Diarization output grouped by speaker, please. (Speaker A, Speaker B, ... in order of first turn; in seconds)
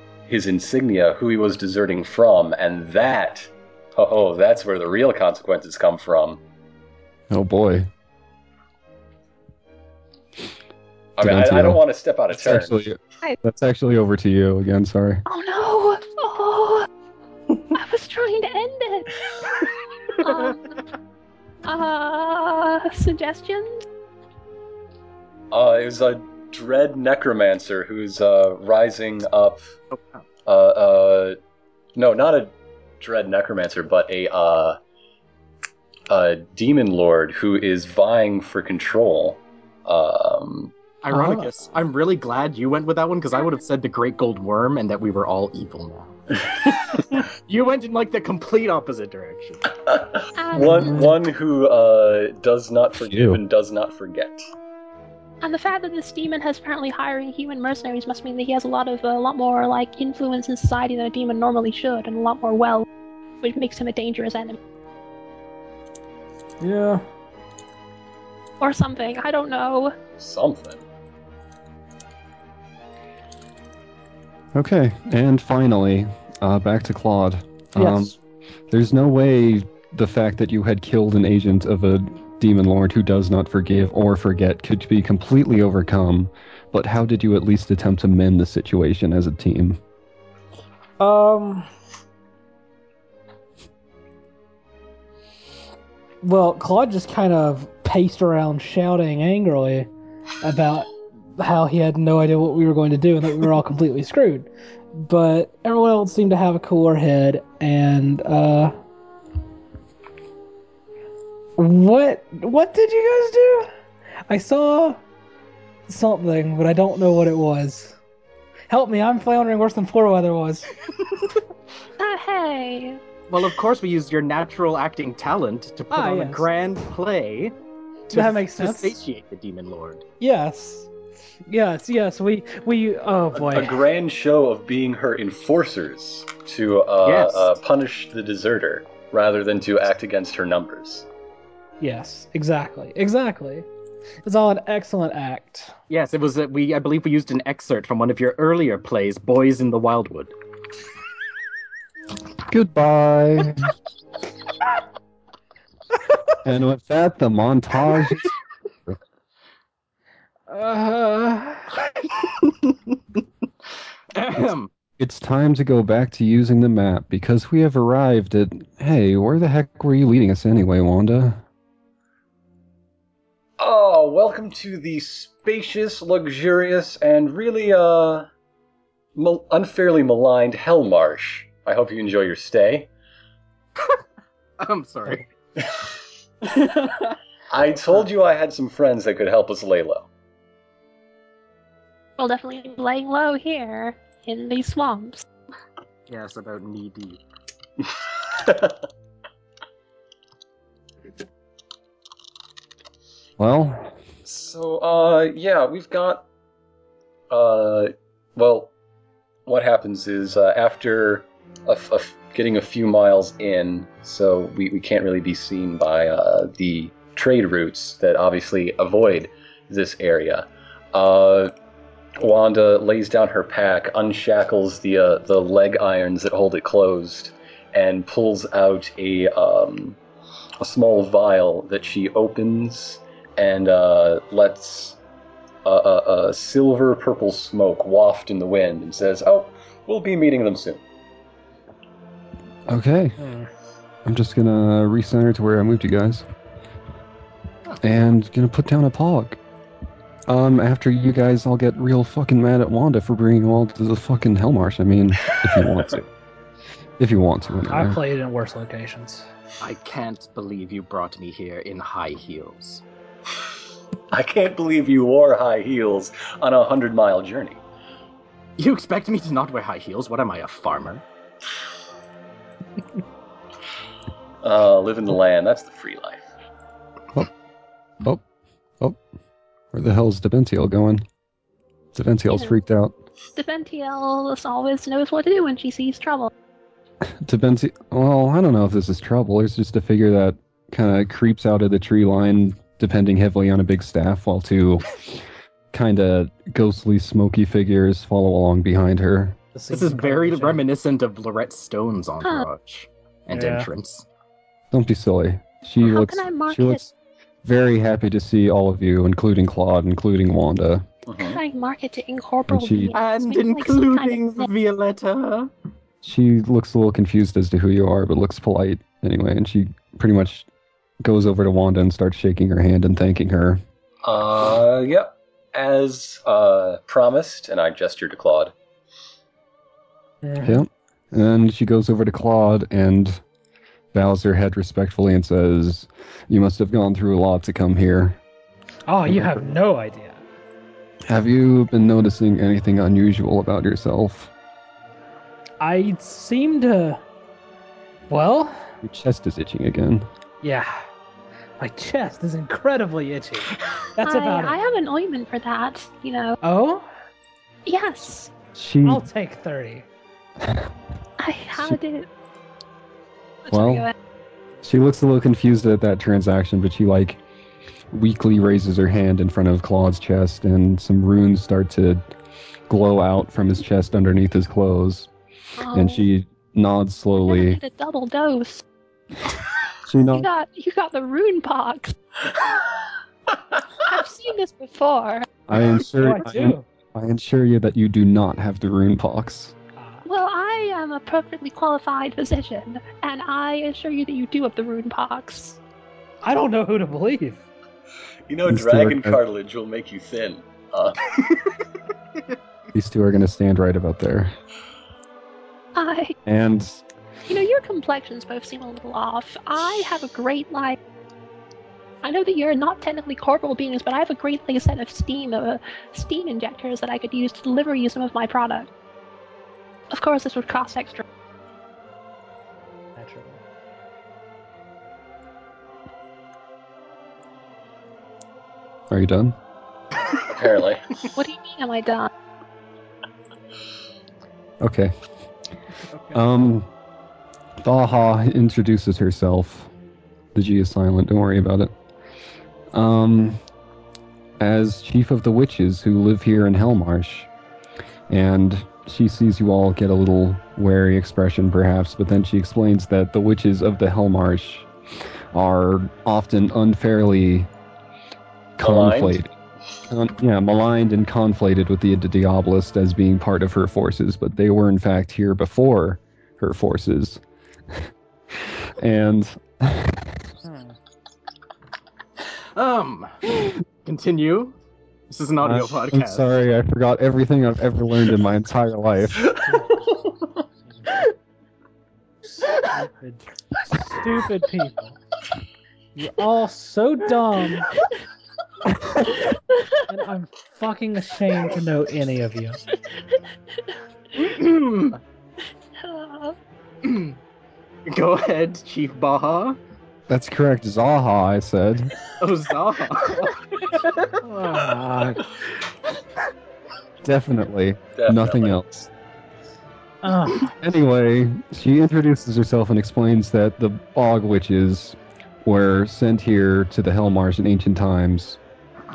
Speaker A: 0.3-6.4, 11.2-12.8, 25.5-29.8, 30.5-31.4, 32.0-34.8, 36.1-40.7, 49.9-54.4, 70.2-70.8, 133.3-141.1, 173.6-178.3, 179.2-182.9, 187.5-190.1, 198.3-198.8, 204.2-206.2, 207.3-208.7, 209.5-221.5, 222.2-230.0, 230.6-235.0, 235.7-240.8, 264.1-267.6, 274.4-276.3, 311.1-311.4, 324.0-328.5, 398.3-401.1, 430.2-430.9, 458.6-459.2, 508.0-508.6
Speaker B: 7.3-7.9, 11.2-15.2, 53.0-53.4, 74.5-78.2, 78.7-89.8, 152.5-153.7, 156.4-158.3, 164.4-171.4, 203.4-203.9, 242.7-243.2, 244.1-246.2, 247.8-249.4, 250.3-256.1, 257.0-258.0, 279.7-281.0, 281.9-282.9, 287.1-299.4, 304.7-306.9, 307.4-310.9, 312.5-312.9, 316.0-320.5, 321.0-323.6, 330.4-333.2, 333.9-338.2, 339.1-339.6, 341.1-344.3, 348.8-350.1, 358.6-359.1, 360.4-360.7, 363.5-363.9, 364.6-367.2, 367.9-372.0, 372.7-375.1, 375.7-377.6, 379.9-380.3, 385.5-389.6, 398.5-399.2, 402.7-404.4, 406.2-406.8, 428.9-429.4, 434.6-434.9, 436.1-436.7, 437.6-439.7, 440.3-441.7, 442.7-443.4, 444.4-447.3, 448.1-454.7, 455.3-457.5, 458.6-459.3, 459.9-470.3, 475.4-479.3, 500.1-501.9, 507.0-508.9, 510.6-518.4
Speaker C: 15.3-16.9, 17.7-19.1, 20.2-20.6, 21.6-23.8, 50.4-51.1, 55.4-62.9, 63.4-64.6, 68.6-70.0, 122.0-123.0, 192.2-195.2, 282.3-282.6, 283.4-286.3, 305.8-306.8, 311.2-314.5, 354.0-356.4, 357.7-358.3, 361.2-362.1, 363.4-363.9, 375.6-376.1, 377.2-378.6, 380.1-382.0, 383.8-385.3, 390.1-395.6, 405.8-406.2, 407.3-410.8, 412.0-418.7, 419.9-421.1, 431.2-432.1, 495.8-496.4
Speaker D: 29.9-30.2, 41.0-49.6, 123.3-127.5, 128.1-130.0, 137.1-137.6, 145.9-150.3, 162.0-163.0, 164.1-164.7, 184.6-185.3, 196.1-197.2, 259.6-262.8, 268.6-271.0, 299.7-304.1, 312.9-315.5, 472.6-474.6, 475.1-476.2, 494.2-495.0, 496.8-497.2, 497.9-499.6, 502.2-504.0
Speaker E: 41.1-41.5, 50.6-51.1, 66.6-67.0, 77.8-78.2, 91.0-91.7, 96.2-99.9, 100.4-108.8, 111.6-113.7, 114.3-115.0, 115.9-118.0, 118.7-120.7, 125.9-126.5, 128.1-129.0, 130.2-130.9, 131.5-133.8, 141.8-143.7, 144.2-145.8, 160.5-161.7, 243.2-243.5, 257.7-259.3, 299.6-300.6, 303.3-303.7, 330.2-330.6, 338.9-340.2, 345.6-347.0, 348.1-348.7, 350.4-350.8, 351.6-354.6, 356.4-356.9, 358.9-359.9, 386.0-386.6, 389.8-390.0, 396.2-397.4, 423.0-423.4, 470.4-470.8, 479.3-479.8, 482.4-485.0, 485.9-487.7, 489.9-492.6, 504.2-505.4, 510.0-510.6